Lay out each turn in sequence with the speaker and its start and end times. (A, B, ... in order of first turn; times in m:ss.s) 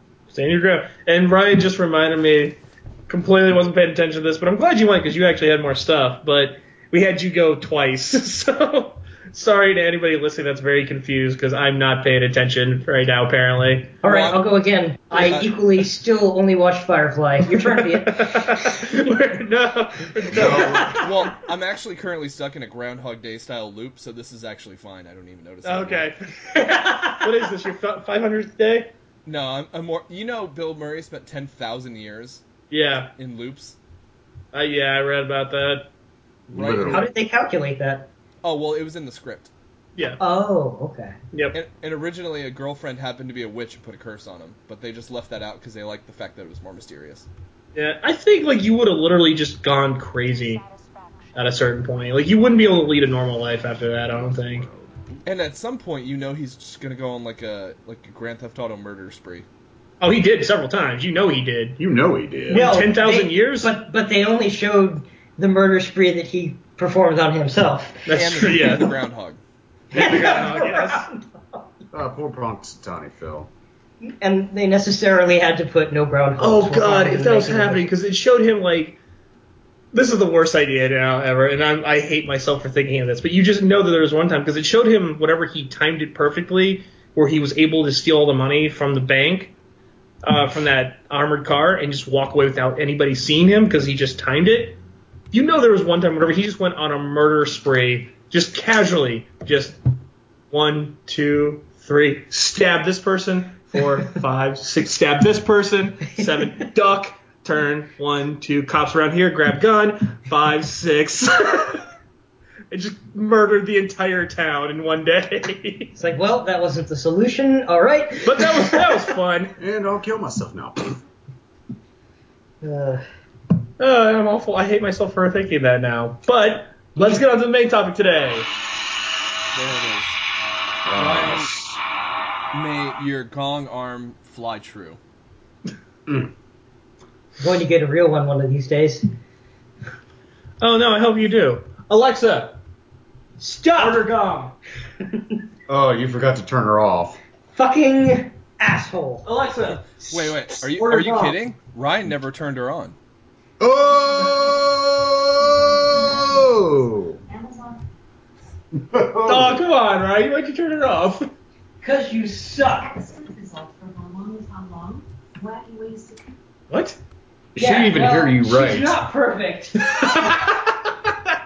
0:00.3-0:14.0 A
0:14.0-0:19.0 B
0:14.0-0:14.4 C
0:15.1-0:15.5 C
0:17.5-0:21.1 A
0:20.3-0:21.1 D
0:20.5-0:26.1 C
0:25.6-0:28.9 A
0:29.2-0:32.4 C
0:32.7-0:33.1 A
0:33.2-0:33.8 C
0:34.5-0:35.9 A
0:36.5-0:37.1 D
0:36.5-0:37.1 C
0:36.8-0:38.1 B
0:38.4-0:39.5 C
0:40.0-0:40.2 A
0:40.2-0:41.2 B
0:41.5-0:47.3 C
0:47.7-0:50.6 A
0:51.3-0:54.7 A
0:54.5-0:55.0 D
0:55.2-0:59.4 C
1:00.0-1:01.8 A
1:01.8-1:02.6 D
1:02.5-1:03.7 A
1:02.5-1:08.9 B
1:08.0-1:08.9 A
1:08.1-1:09.4 C
1:09.9-1:11.1 A
1:09.9-1:11.6 B
1:11.9-1:13.5 D
1:14.0-1:17.8 B
1:16.4-1:19.0 A
1:19.9-1:29.5 A
1:30.2-1:34.8 A
1:35.3-1:39.8 A
1:40.5-1:51.8 A
1:52.7-1:55.9 A
1:56.0-1:58.8 B
1:58.2-1:59.5 A
1:59.6-2:01.0 D
2:02.6-2:03.0 B
2:03.8-2:08.5 A
2:09.5-2:10.2 C
2:10.8-2:11.8 D
2:10.9-2:11.5 C
2:12.5-2:15.0 C
2:16.1-2:16.3 D
2:17.4-2:19.0 B
2:20.6-2:22.6 A
2:23.4-2:24.0 B
2:23.7-2:24.6 A
2:25.7-2:27.2 D
2:27.5-2:29.2 B
2:29.2-2:30.0 A
2:30.0-2:33.0 C
2:30.8-2:31.3 B
2:30.9-2:31.3 A
2:33.6-2:37.2 D
2:37.3-2:37.7 B
2:38.7-2:39.6 D
2:39.2-2:41.3 A
2:41.8-2:46.2 B
2:46.7-2:47.0 A
2:47.5-2:49.0 D
2:47.6-2:50.0 B
2:49.8-2:51.3 A